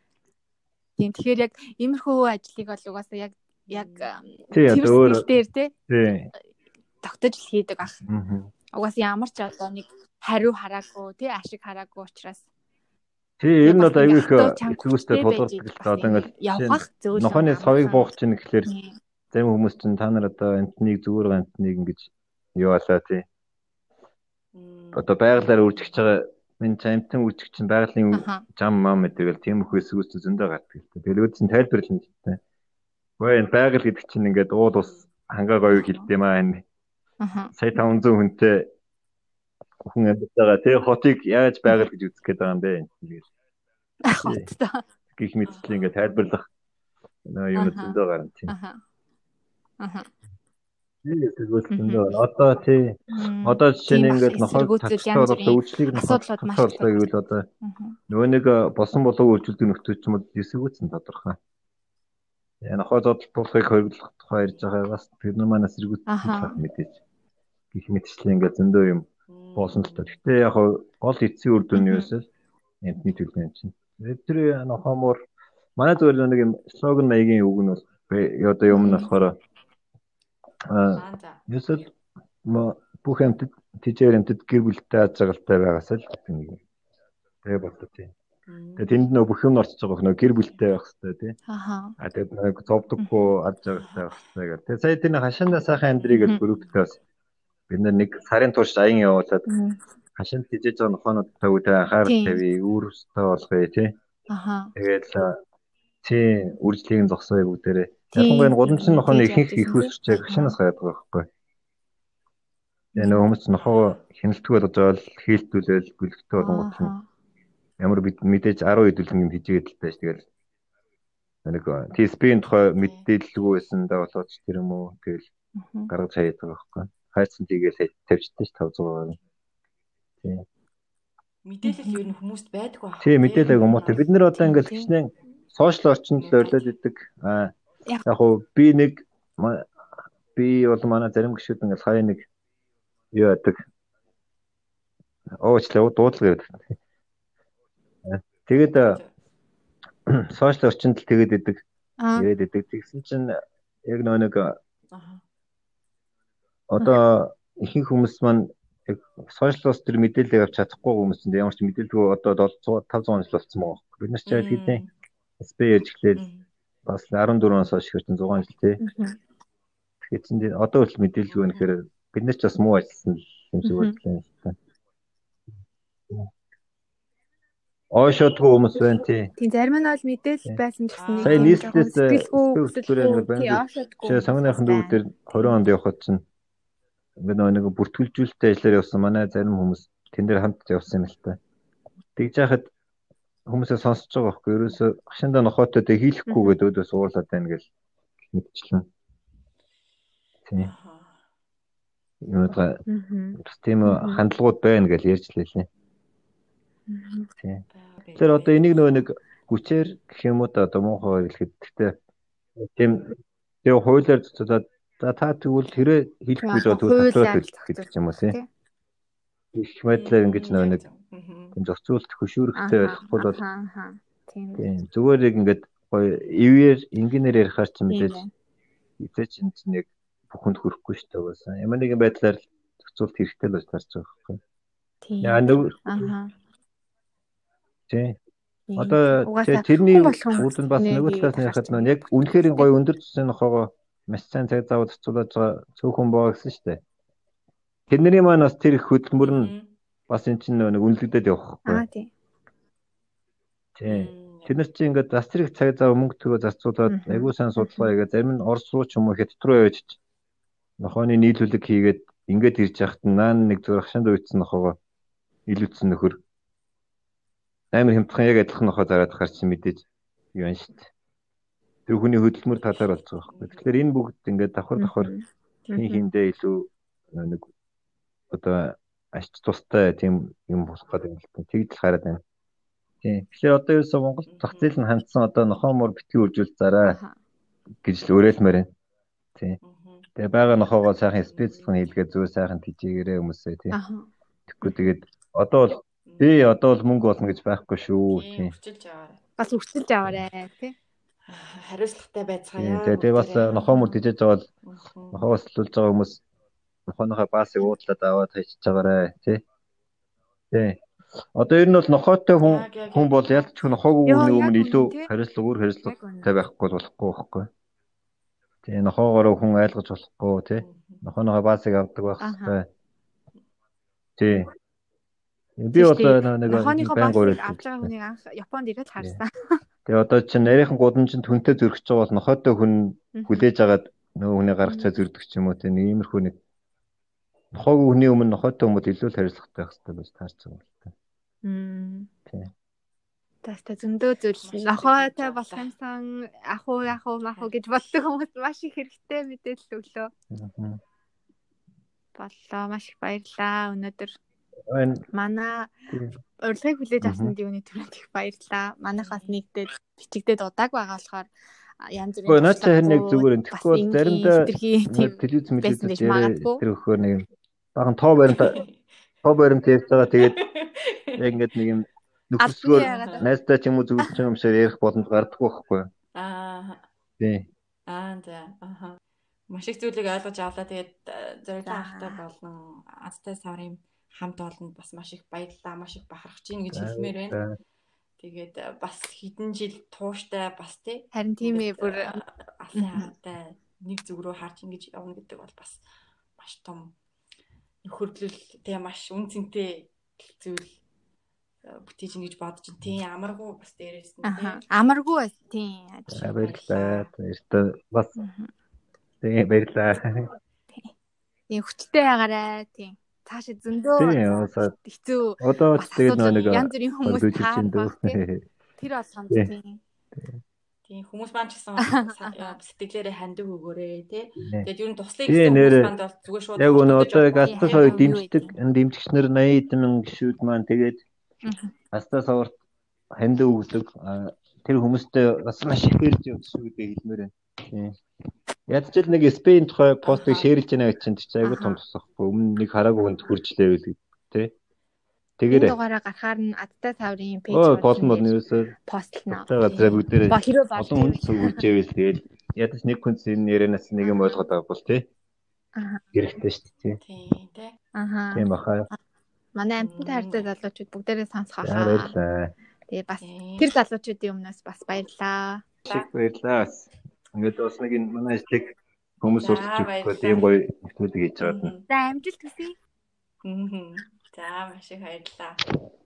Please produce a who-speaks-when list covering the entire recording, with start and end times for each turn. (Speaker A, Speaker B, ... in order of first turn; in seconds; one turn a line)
Speaker A: 1.0-5.7
Speaker B: 3.7-4.1
Speaker C: 4.5-5.2
Speaker C: 5.9-6.3
Speaker A: 7.0-8.0
Speaker C: 8.1-8.5
Speaker A: 8.7-12.5
Speaker C: 13.4-18.7
Speaker A: 13.6-18.1
Speaker A: 18.6-18.9
Speaker C: 19.3-23.2
Speaker B: 24.5-26.1
Speaker C: 24.9-32.4
Speaker A: 28.1-28.4
Speaker C: 33.2-36.6
Speaker B: 34.6-35.1
Speaker A: 35.7-36.1
Speaker A: 37.2-37.5
Speaker C: 37.5-38.7
Speaker C: 39.8-43.3
Speaker A: 44.0-44.8
Speaker C: 44.2-44.5
Speaker C: 45.1-46.5
Speaker B: 45.4-46.0
Speaker C: 47.2-48.5
Speaker A: 47.5-48.8
Speaker A: 49.8-50.1
Speaker C: 51.0-57.5
Speaker A: 51.7-52.1
Speaker A: 53.1-58.0
Speaker C: 58.1-61.4
Speaker C: 62.6-67.0
Speaker A: 66.1-66.6
Speaker C: 67.7-72.3
Speaker B: 69.3-70.2
Speaker A: 71.8-72.1
Speaker C: 72.8-75.2
Speaker C: 75.8-79.4
Speaker A: 78.7-79.1
Speaker C: 80.6-81.9
Speaker B: 81.0-81.4
Speaker C: 82.4-86.6
Speaker C: 87.4-88.1
Speaker B: 88.5-89.0
Speaker C: 88.8-91.4
Speaker A: 91.5-92.0
Speaker C: 92.0-97.0
Speaker A: 93.0-93.2
Speaker B: 93.7-94.2
Speaker B: 96.0-96.8
Speaker C: 97.7-99.5
Speaker A: 99.5-99.8
Speaker C: 100.2-104.0
Speaker A: 102.0-102.4
Speaker A: 104.3-104.7
Speaker C: 104.8-105.4
Speaker C: 106.0-111.3
Speaker A: 108.1-110.5
Speaker A: 112.9-113.2
Speaker C: 113.0-116.9
Speaker B: 113.5-114.0
Speaker A: 116.4-117.0
Speaker C: 117.8-120.3
Speaker C: 121.4-125.3
Speaker B: 122.6-123.1
Speaker A: 125.6-125.9
Speaker C: 125.9-129.2
Speaker B: 131.4-134.1
Speaker A: 131.6-132.0
Speaker C: 133.0-137.5
Speaker A: 134.4-134.9
Speaker B: 136.2-136.7
Speaker C: 138.0-139.7
Speaker C: 140.3-142.3
Speaker C: 143.1-143.6
Speaker C: 145.3-146.7
Speaker C: 148.0-149.0
Speaker B: 148.8-149.1
Speaker C: 150.1-151.6
Speaker A: 152.0-152.2
Speaker C: 152.2-154.6
Speaker B: 154.9-155.2
Speaker C: 156.7-164.8
Speaker B: 164.3-164.9
Speaker C: 165.4-166.2
Speaker B: 166.2-166.4
Speaker C: 166.8-168.8
Speaker A: 168.8-169.2
Speaker C: 170.0-174.6
Speaker B: 171.3-171.7
Speaker A: 173.6-173.9
Speaker C: 177.9-179.3
Speaker A: 179.4-185.6
Speaker B: 181.0-181.6
Speaker C: 181.2-186.2
Speaker C: 187.2-191.4
Speaker C: 192.2-192.7
Speaker C: 193.4-197.7
Speaker A: 196.3-196.6
Speaker C: 198.2-198.9
Speaker C: 200.5-200.7
Speaker B: 200.6-201.2
Speaker C: 202.2-202.8
Speaker A: 202.9-204.2
Speaker C: 203.4-205.7
Speaker A: 206.9-207.3
Speaker C: 207.4-207.6
Speaker B: 207.7-208.8
Speaker C: 208.2-212.0
Speaker C: 212.6-218.4
Speaker A: 216.4-218.5
Speaker C: 219.5-220.8
Speaker B: 219.9-221.6
Speaker C: 221.5-223.4
Speaker A: 222.6-224.7
Speaker C: 224.6-228.2
Speaker A: 227.9-228.3
Speaker C: 229.0-234.4
Speaker A: 235.0-236.3
Speaker C: 235.2-236.1
Speaker C: 237.9-238.2
Speaker A: 238.7-242.7
Speaker C: 238.8-246.8
Speaker C: 247.9-249.5
Speaker B: 249.2-249.7
Speaker C: 250.1-251.8
Speaker A: 251.7-252.1
Speaker C: 253.8-260.0
Speaker B: 253.9-254.6
Speaker A: 256.9-257.9
Speaker C: 260.8-264.8
Speaker C: 265.5-266.2
Speaker C: 267.7-270.9
Speaker C: 271.9-275.1
Speaker B: 272.6-273.7
Speaker A: 274.8-276.0
Speaker C: 275.7-277.5
Speaker C: 278.3-282.2
Speaker C: 283.0-287.0
Speaker B: 284.3-284.7
Speaker A: 286.9-287.1
Speaker C: 287.8-288.7
Speaker B: 289.6-292.0
Speaker C: 290.1-293.8
Speaker A: 293.7-294.1
Speaker C: 294.5-298.5
Speaker B: 296.0-296.4
Speaker B: 298.1-299.2
Speaker A: 299.4-300.7
Speaker B: 301.2-304.0
Speaker C: 302.6-304.5
Speaker B: 304.6-305.2
Speaker C: 305.1-306.2
Speaker C: 306.9-309.4
Speaker C: 310.5-310.8
Speaker C: 311.3-317.5
Speaker B: 312.4-313.8
Speaker A: 314.1-315.1
Speaker A: 315.9-316.3
Speaker C: 318.6-322.7
Speaker B: 320.6-321.0
Speaker A: 322.2-322.6
Speaker C: 324.2-324.5
Speaker C: 325.6-327.9
Speaker A: 325.7-329.6
Speaker C: 329.9-336.3
Speaker A: 333.1-333.4
Speaker C: 337.5-340.9
Speaker A: 341.4-342.1
Speaker A: 343.4-350.1
Speaker B: 344.4-345.7
Speaker C: 350.3-350.8
Speaker A: 352.1-354.2
Speaker C: 354.7-355.0
Speaker A: 355.1-355.7
Speaker C: 355.9-356.2
Speaker A: 356.4-366.6
Speaker C: 357.0-357.3
Speaker B: 359.0-359.4
Speaker C: 362.3-368.6
Speaker B: 368.3-368.8
Speaker C: 369.2-370.4
Speaker B: 370.1-371.4
Speaker C: 371.2-375.9
Speaker A: 372.4-373.3
Speaker B: 372.8-373.2
Speaker B: 376.1-376.9
Speaker C: 377.2-377.5
Speaker B: 377.9-387.4
Speaker A: 381.6-382.2
Speaker C: 386.7-387.6
Speaker B: 388.2-395.8
Speaker A: 391.1-392.2
Speaker A: 392.7-393.1
Speaker B: 396.4-396.9
Speaker B: 397.8-400.7
Speaker B: 401.6-404.6
Speaker A: 404.2-406.3
Speaker C: 406.1-408.1
Speaker B: 406.4-407.1
Speaker A: 408.2-408.5
Speaker C: 409.2-410.3
Speaker A: 411.5-418.2
Speaker C: 413.9-414.7
Speaker C: 415.4-418.4
Speaker B: 416.2-416.6
Speaker A: 418.8-419.8
Speaker B: 420.9-428.5
Speaker A: 421.8-422.6
Speaker C: 424.4-424.7
Speaker C: 425.2-425.9
Speaker C: 426.6-431.0
Speaker A: 427.5-428.4
Speaker A: 431.4-431.7
Speaker C: 431.9-432.5
Speaker C: 433.1-437.9
Speaker C: 438.7-444.5
Speaker B: 440.1-440.5
Speaker A: 441.4-441.8
Speaker C: 445.4-445.8
Speaker A: 445.5-448.3
Speaker C: 447.5-448.7
Speaker A: 448.8-451.6
Speaker C: 449.3-455.1
Speaker A: 454.0-454.4
Speaker A: 455.7-456.0
Speaker C: 456.1-457.0
Speaker B: 457.0-457.8
Speaker A: 457.9-458.9
Speaker C: 458.3-458.9
Speaker A: 459.5-462.1
Speaker B: 459.8-460.5
Speaker C: 461.6-462.5
Speaker A: 462.9-465.7
Speaker B: 463.2-463.7
Speaker C: 465.9-471.7
Speaker B: 469.3-470.5
Speaker B: 471.4-471.8
Speaker A: 471.9-472.8
Speaker B: 473.4-475.6